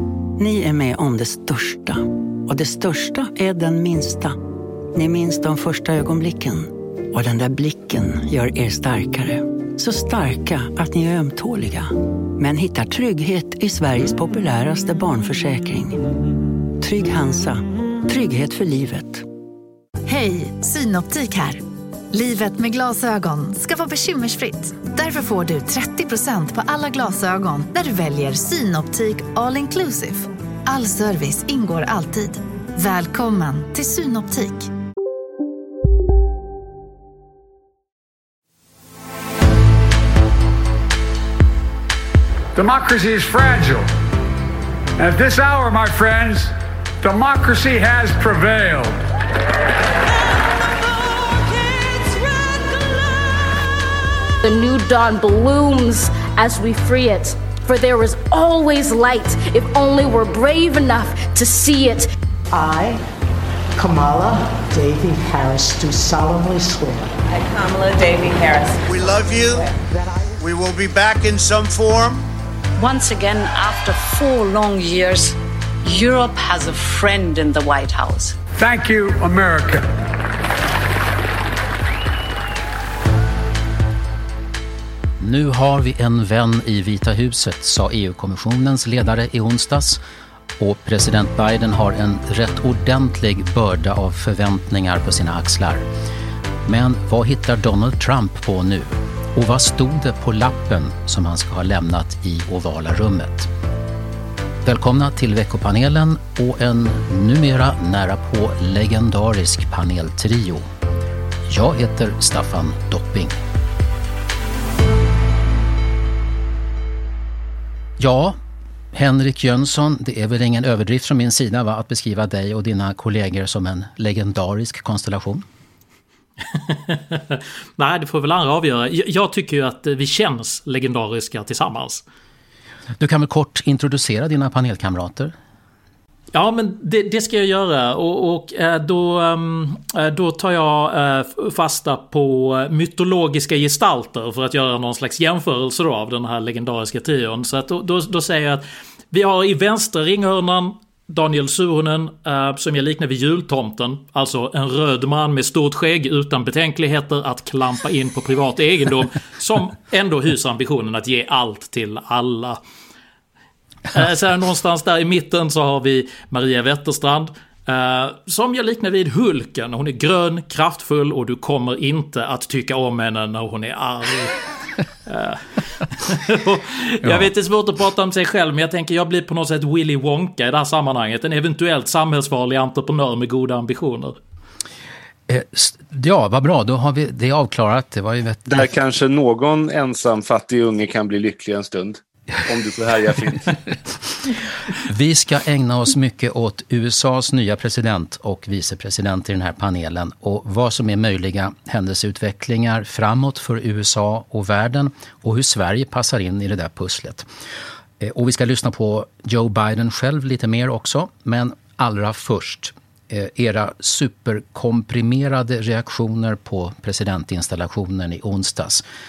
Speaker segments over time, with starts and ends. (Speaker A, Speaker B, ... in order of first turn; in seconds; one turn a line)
Speaker A: 0.4-4.4
Speaker A: 4.9-16.0
Speaker A: 16.8-19.2
Speaker B: 20.1-34.7
Speaker C: 42.5-43.9
Speaker C: 45.0-49.0
Speaker C: 51.8-52.2
Speaker D: 54.4-62.1
Speaker E: 62.5-63.0
Speaker E: 63.8-67.2
Speaker F: 67.3-69.7
Speaker G: 68.8-69.7
Speaker G: 70.4-72.3
Speaker F: 72.8-78.4
Speaker C: 78.5-79.9
Speaker H: 85.2-90.0
Speaker H: 90.6-95.9
Speaker H: 96.7-103.5
Speaker H: 104.6-110.7
Speaker H: 111.5-113.4
Speaker H: 118.0-118.4
Speaker H: 118.9-125.5
Speaker I: 126.5-132.0
Speaker H: 133.0-135.3
Speaker I: 136.3-162.6
Speaker I: 163.9-174.4
Speaker I: 175.1-184.2
Speaker H: 185.3-188.7
Speaker J: 188.5-193.6
Speaker H: 194.8-207.3
Speaker H: 208.0-218.8